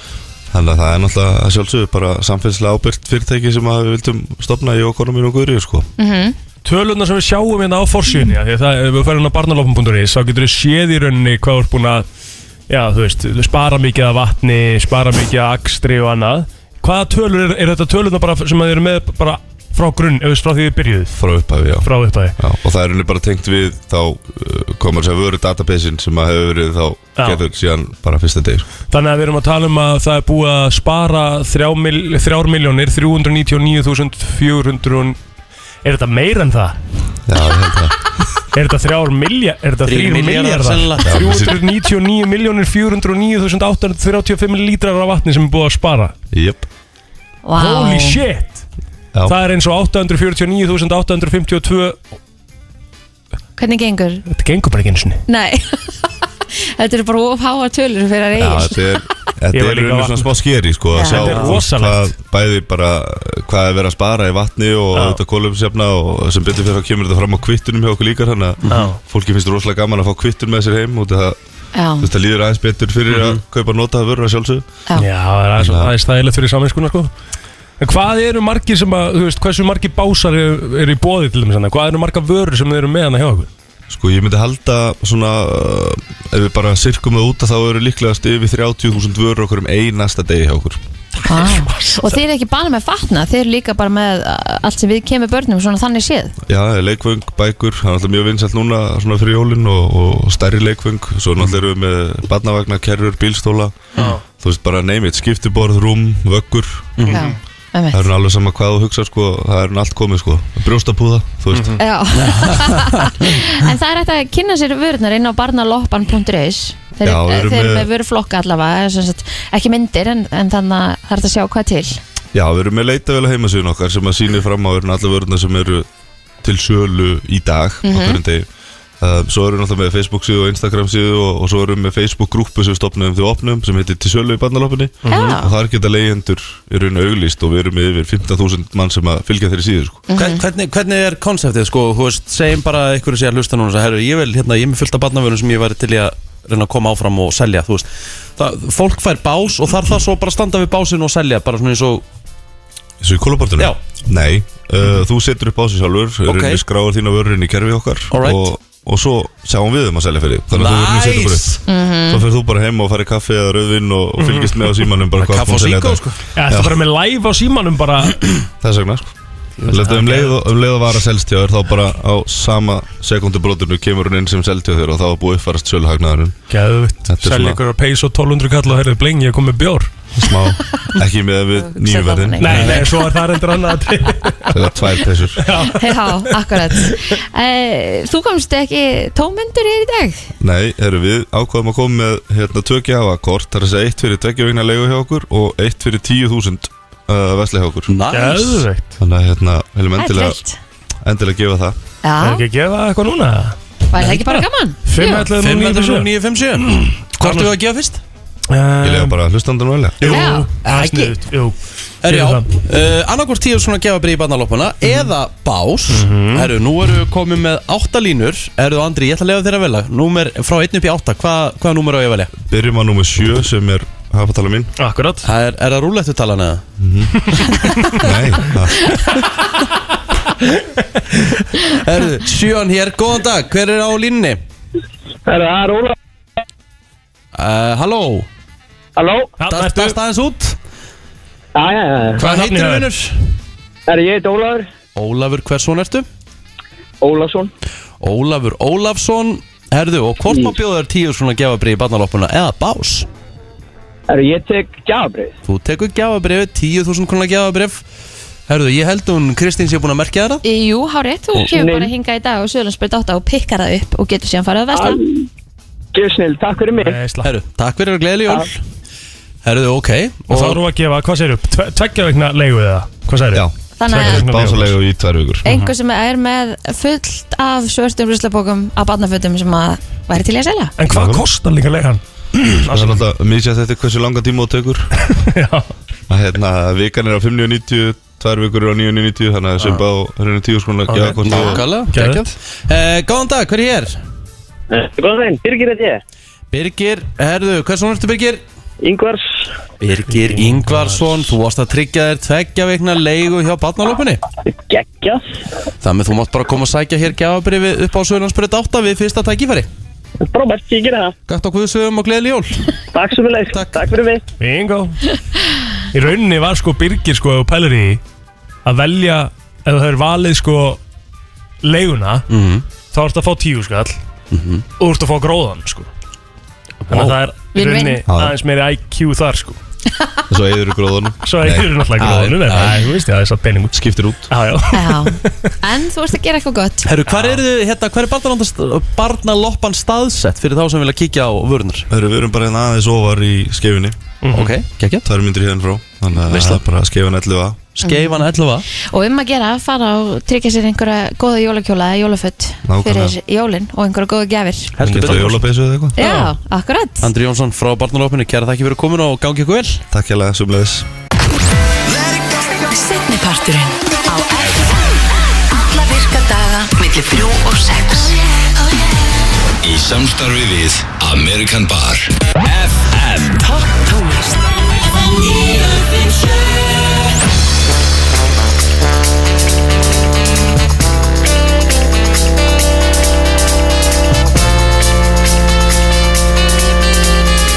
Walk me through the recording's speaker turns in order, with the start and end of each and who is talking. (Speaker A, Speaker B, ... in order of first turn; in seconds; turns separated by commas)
Speaker A: 0.5-5.9, Speaker B: 6.0-6.3, Speaker C: 6.7-12.1, Speaker C: 12.7-21.2, Speaker A: 21.2-28.7, Speaker C: 21.8-22.4, Speaker C: 28.9-35.2, Speaker C: 35.8-36.8, Speaker A: 37.3-38.0, Speaker C: 38.5-46.1, Speaker D: 39.8-41.4, Speaker A: 41.0-41.5, Speaker A: 46.3-46.6, Speaker B: 47.5-48.2, Speaker C: 47.6-48.6, Speaker C: 49.3-52.0, Speaker B: 53.6-54.2, Speaker C: 54.3-55.2, Speaker B: 55.3-58.8, Speaker A: 58.4-71.4, Speaker C: 59.5-60.3, Speaker B: 61.0-61.4, Speaker C: 61.1-62.1, Speaker C: 64.9-65.2, Speaker C: 68.7-69.0, Speaker B: 71.8-72.1, Speaker A: 72.0-74.7, Speaker D: 73.1-73.4, Speaker C: 75.0-77.1, Speaker A: 75.6-75.9, Speaker C: 77.8-83.5, Speaker A: 83.9-90.8, Speaker B: 91.2-96.3, Speaker A: 96.5-107.0, Speaker C: 104.0-104.2, Speaker D: 107.0-107.3, Speaker C: 107.1-107.3, Speaker B: 107.1-108.1, Speaker A: 107.9-111.8, Speaker B: 111.8-122.0, Speaker D: 112.1-113.3, Speaker A: 117.0-117.9, Speaker A: 122.3-125.9, Speaker A: 126.4-128.5, Speaker B: 127.8-128.2, Speaker A: 129.0-140.1, Speaker B: 135.1-135.5, Speaker B: 140.1-140.4, Speaker D: 140.1-152.1, Speaker A: 153.0-166.8, Speaker D: 156.3-156.6, Speaker D: 158.1-158.5, Speaker D: 160.5-161.6, Speaker B: 161.7-162.2, Speaker C: 164.2-164.9, Speaker D: 165.2-166.2, Speaker C: 166.3-168.3, Speaker A: 168.6-169.1, Speaker A: 169.7-176.4, Speaker C: 169.7-170.3, Speaker C: 176.5-179.9, Speaker A: 177.1-177.6, Speaker A: 180.2-182.8, Speaker B: 181.6-182.8, Speaker C: 182.4-184.5, Speaker A: 184.5-185.5, Speaker C: 185.4-186.9, Speaker B: 185.6-190.2, Speaker A: 190.4-197.9, Speaker D: 197.9-198.7, Speaker C: 198.1-199.0, Speaker A: 199.0-200.4, Speaker B: 200.0-200.6, Speaker A: 201.0-201.8, Speaker B: 202.0-202.4, Speaker C: 202.2-207.5, Speaker B: 203.9-205.3, Speaker D: 205.3-208.0, Speaker C: 208.5-209.2, Speaker A: 208.8-210.2, Speaker C: 210.0-212.4, Speaker B: 210.0-210.6, Speaker D: 210.1-211.1, Speaker D: 212.0-222.3, Speaker C: 215.9-216.5, Speaker A: 222.5-224.7, Speaker C: 224.8-225.2, Speaker D: 225.2-226.6, Speaker A: 226.8-227.3, Speaker C: 227.3-227.9, Speaker A: 227.9-228.9, Speaker D: 231.6-234.4, Speaker E: 235.3-235.9, Speaker D: 237.3-238.3, Speaker E: 239.0-239.3, Speaker C: 239.4-240.0, Speaker D: 239.5-240.6, Speaker E: 241.6-242.2, Speaker D: 242.2-243.2, Speaker C: 242.2-242.9, Speaker E: 243.9-244.7, Speaker D: 244.9-246.1, Speaker E: 247.0-247.5, Speaker D: 248.0-253.1, Speaker E: 254.1-255.3, Speaker D: 255.5-257.8, Speaker D: 258.5-260.4, Speaker B: 260.4-265.0, Speaker E: 261.5-261.9, Speaker E: 265.9-267.0, Speaker C: 266.8-267.3, Speaker D: 267.2-268.6, Speaker D: 269.4-270.6, Speaker C: 270.3-274.8, Speaker A: 273.4-275.4, Speaker B: 273.8-274.2, Speaker B: 275.4-280.7, Speaker C: 280.8-283.0, Speaker A: 280.9-281.2, Speaker A: 282.4-284.9, Speaker C: 285.2-285.7, Speaker A: 286.1-291.7, Speaker C: 290.9-292.3, Speaker D: 291.2-294.0, Speaker D: 296.5-298.4, Speaker D: 299.8-304.2, Speaker C: 300.1-301.3, Speaker E: 304.8-305.1, Speaker D: 305.8-309.7, Speaker D: 311.3-312.6, Speaker D: 313.5-313.9, Speaker C: 314.4-315.0, Speaker C: 315.9-318.0, Speaker C: 318.6-320.8, Speaker C: 321.6-322.3, Speaker D: 322.3-322.6, Speaker C: 322.9-324.0, Speaker D: 324.3-324.6, Speaker C: 324.8-325.9, Speaker C: 326.9-329.6, Speaker D: 326.9-327.2, Speaker B: 327.5-328.0, Speaker A: 328.1-328.4, Speaker A: 330.3-331.7, Speaker C: 331.2-335.3, Speaker D: 332.0-332.8, Speaker A: 333.7-334.3, Speaker B: 334.7-336.9, Speaker D: 336.8-341.9, Speaker C: 337.1-337.4, Speaker A: 341.9-344.0, Speaker C: 344.2-344.6, Speaker D: 344.3-345.1, Speaker A: 345.1-347.7, Speaker D: 346.2-346.6, Speaker D: 347.8-348.7, Speaker B: 347.8-348.2, Speaker B: 348.8-354.8, Speaker A: 352.6-353.2, Speaker D: 354.8-356.3, Speaker A: 354.8-356.0, Speaker B: 356.0-357.1, Speaker D: 357.0-359.8, Speaker A: 359.9-360.9, Speaker F: 362.7-364.7, Speaker F: 365.6-368.1, Speaker G: 369.6-373.5, Speaker F: 373.8-374.2